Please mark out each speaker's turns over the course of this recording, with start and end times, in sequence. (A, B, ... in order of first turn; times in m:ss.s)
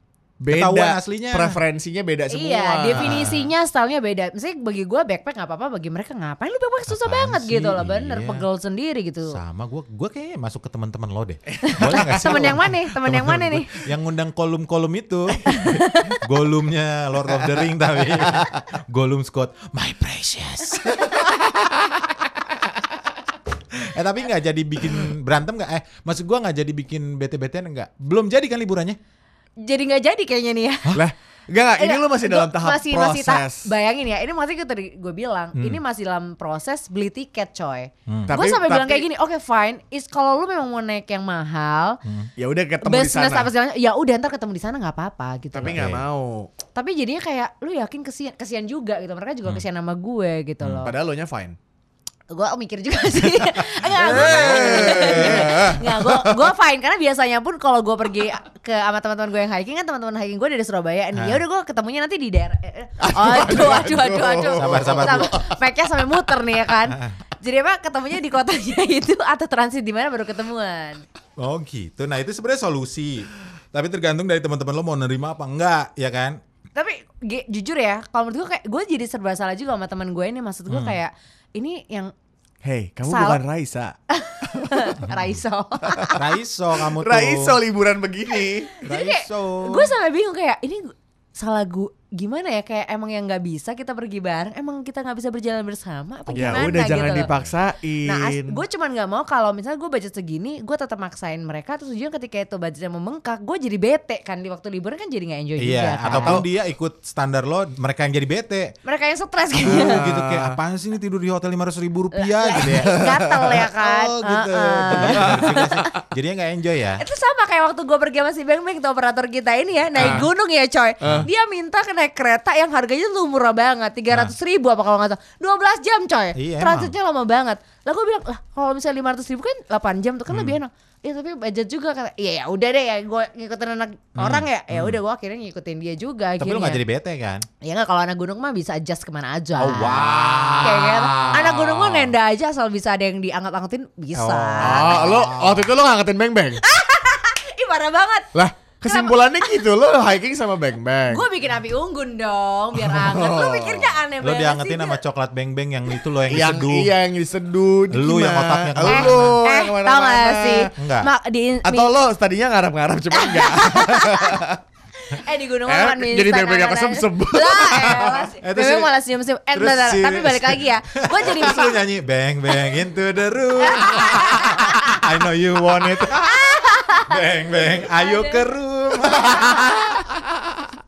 0:00.4-0:03.5 A
0:00.5-0:01.6 B
0:02.3-0:09.4 C
0:02.9-0:03.4 B
0:06.9-0:08.4 B
0:09.3-0:21.7 B
0:11.6-0:12.6 A
0:11.6-0:13.7 C
0:15.4-0:16.2 C
0:23.8-0:29.0 B
0:29.6-0:31.0 C
0:30.9-0:33.7 A
0:31.8-0:42.0 C
0:38.1-0:38.3 B
0:38.3-0:39.1 A
0:42.0-0:42.3 B
0:42.4-0:43.5 A
0:42.8-0:45.9 C
0:45.5-0:46.5 A
0:45.7-0:46.0 B
0:46.7-0:51.0 C
0:50.6-0:50.9 B
0:50.8-0:51.6 A
0:52.3-1:11.0 C
0:53.9-0:56.5 A
0:54.0-0:55.4 B
1:01.1-1:01.4 B
1:03.0-1:05.6 A
1:04.6-1:05.4 B
1:11.4-1:16.4 B
1:16.7-1:22.1 C
1:20.7-1:21.0 B
1:22.6-1:23.9 A
1:23.1-1:23.4 C
1:24.1-1:26.2 C
1:24.5-1:24.9 A
1:25.9-1:26.2 A
1:26.1-1:27.6 B
1:26.9-1:28.8 A
1:28.8-1:37.3 C
1:28.8-1:29.9 B
1:36.3-1:36.7 B
1:36.3-1:38.6 A
1:38.0-1:46.4 C
1:45.6-1:48.7 B
1:46.1-1:46.4 A
1:48.8-1:50.0 C
1:49.6-1:50.6 A
1:49.6-1:57.0 B
1:52.1-1:55.9 C
1:52.6-1:53.5 A
1:55.0-1:55.4 A
1:57.0-2:16.8 C
2:00.0-2:00.3 A
2:00.0-2:00.3 B
2:01.0-2:01.3 A
2:01.0-2:01.3 B
2:06.4-2:07.0 B
2:10.3-2:10.6 B
2:14.2-2:15.0 B
2:16.4-2:17.5 B
2:17.6-2:25.0 C
2:19.6-2:22.1 B
2:24.1-2:25.7 B
2:24.6-2:26.6 A
2:26.6-2:28.3 C
2:28.3-2:31.2 A
2:28.9-2:29.6 C
2:31.1-2:35.0 C
2:32.8-2:34.0 A
2:34.2-2:36.9 B
2:36.3-2:40.7 A
2:37.9-2:39.4 B
2:38.8-2:41.9 C
2:40.8-2:41.1 B
2:41.6-2:44.6 A
2:43.2-2:44.4 C
2:45.0-2:51.8 C
2:45.7-2:48.3 A
2:48.4-2:48.9 B
2:49.5-3:00.2 B
2:53.6-2:55.0 C
2:56.1-2:58.5 C
2:59.2-2:59.8 C